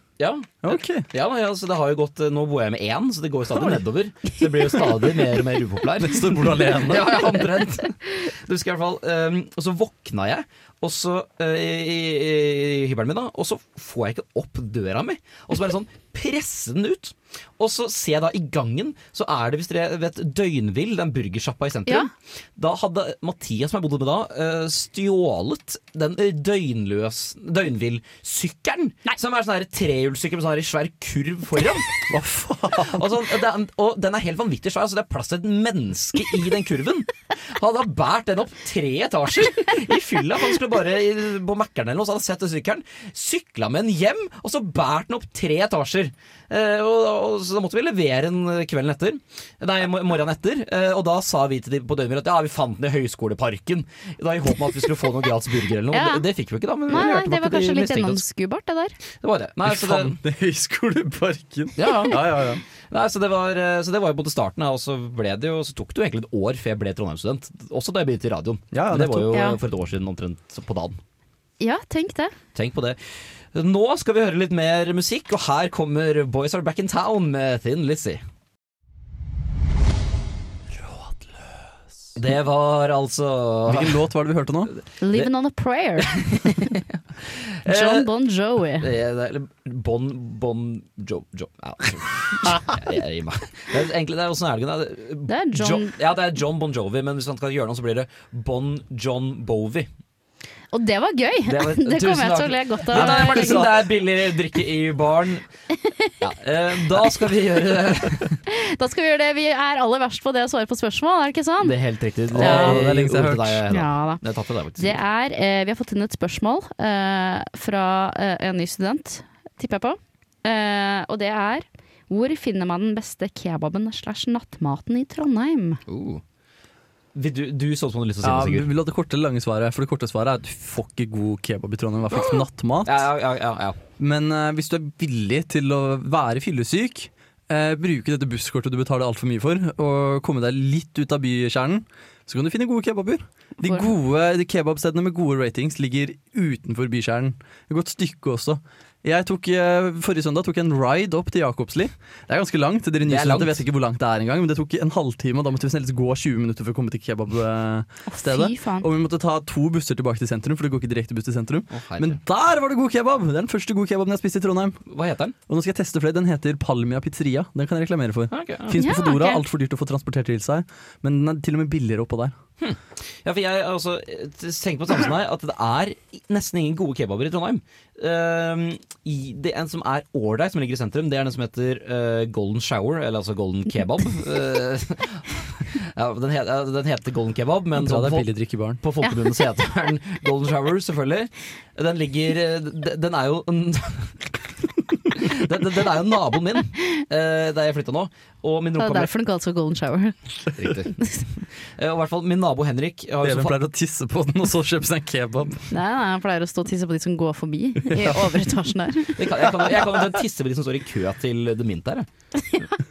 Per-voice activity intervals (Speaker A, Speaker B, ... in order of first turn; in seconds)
Speaker A: 0.2-31.9, 32.8-58.2, 59.2-60.2, 61.8-62.2, 62.9-71.0, 72.5-73.0, 73.5-78.2, 82.2-84.0, 86.0-88.1, 88.8-99.9, 101.5-105.5, 106.2-108.4, 111.6-115.0, 125.9-126.2, 127.2-128.7, 132.8-133.8, 153.1-153.6, 161.7-162.2, 164.9-165.3, 168.3-168.8, 172.6-188.3, 188.8-194.3, 195.1-199.1, 200.6-203.6, 209.2-212.1
Speaker B: 0.6-1.1, 6.0-7.3, 32.1-33.1, 59.6-62.6, 68.7-69.4, 83.7-84.8, 112.3-113.6, 128.2-133.1, 134.0-164.8, 165.5-172.3, 187.8-188.8, 203.2-205.7, 207.9-208.3
Speaker C: 55.9-56.3, 56.9-59.0, 61.8-62.1, 69.3-69.6, 71.6-72.3, 85.0-86.6, 87.7-88.9, 95.3-95.9, 100.7-103.8, 105.8-106.2, 108.5-111.8, 112.4-112.8, 113.7-114.2, 114.8-125.8, 143.6-143.9, 158.1-158.9, 168.8-169.4, 198.8-200.2, 205.7-209.5